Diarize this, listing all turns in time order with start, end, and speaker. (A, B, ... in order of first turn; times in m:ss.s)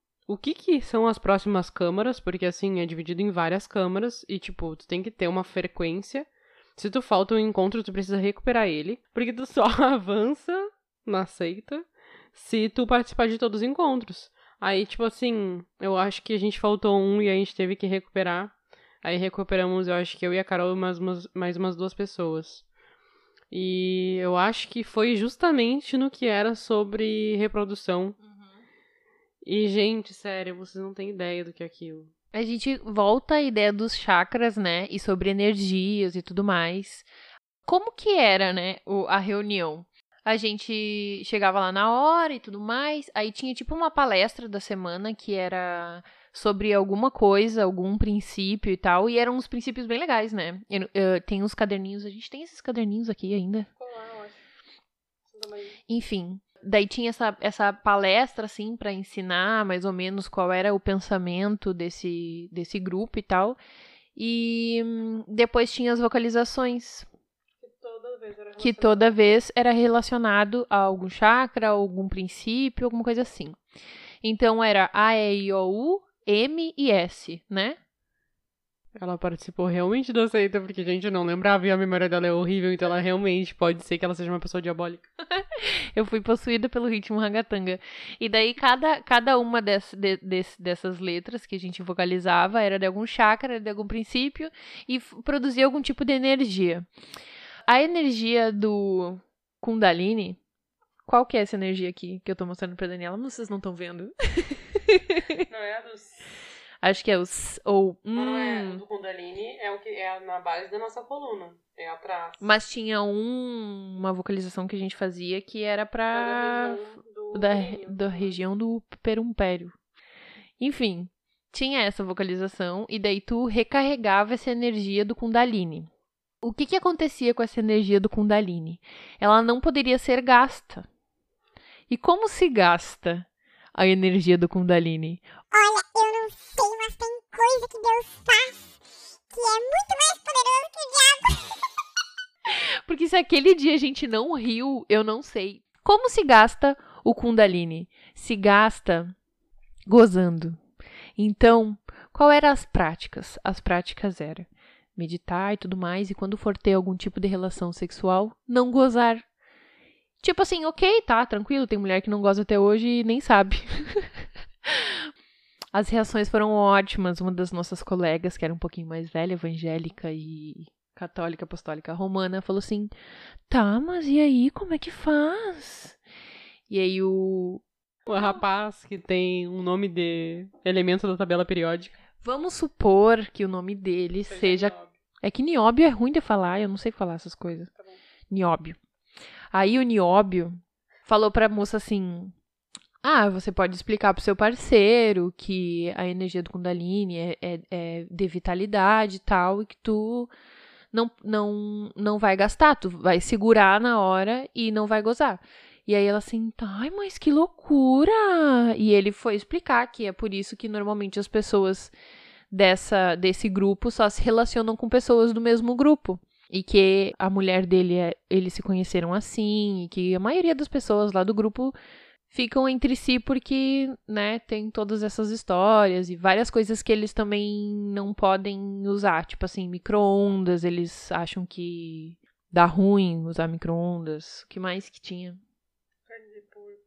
0:00.3-0:22.6 A
0:23.5-0:28.2 A
0:28.2-0:28.5 B
0:29.4-0:32.1 A
0:32.3-0:37.1 B
0:37.6-0:53.7 B
0:53.8-0:54.3 A
0:55.3-0:55.6 A
0:55.9-1:03.6 B
1:04.2-1:07.1 B
1:07.6-1:09.0 A
1:08.6-1:13.6 B
1:14.2-1:17.8 B
1:19.0-1:25.1 A
1:25.4-1:36.8 B
1:37.7-1:40.4 B
1:41.0-1:45.4 B
1:45.5-1:46.2 A
1:46.8-1:48.8 B
1:48.2-1:52.4 A
1:52.4-1:59.7 B
1:56.1-1:58.4 A
2:00.6-2:05.9 B
2:06.4-2:10.8 B
2:11.9-2:15.2 B
2:15.5-2:18.6 C
2:19.3-2:21.5 C
2:22.5-2:29.1 B
2:29.9-2:30.6 B
2:31.2-2:39.2 B
2:40.2-2:45.1 B
2:45.7-2:52.9 B
2:53.5-2:56.0 B
2:56.7-2:57.6 B
2:58.1-3:02.0 A
2:58.2-2:58.4 B
3:02.2-3:07.7 B
3:04.3-3:04.9 A
3:08.3-3:08.8 B
3:09.5-3:12.3 B
3:13.0-3:20.3 B
3:20.9-3:31.9 B
3:32.5-3:41.8 B
3:42.3-3:55.4 B
3:56.1-3:56.8 A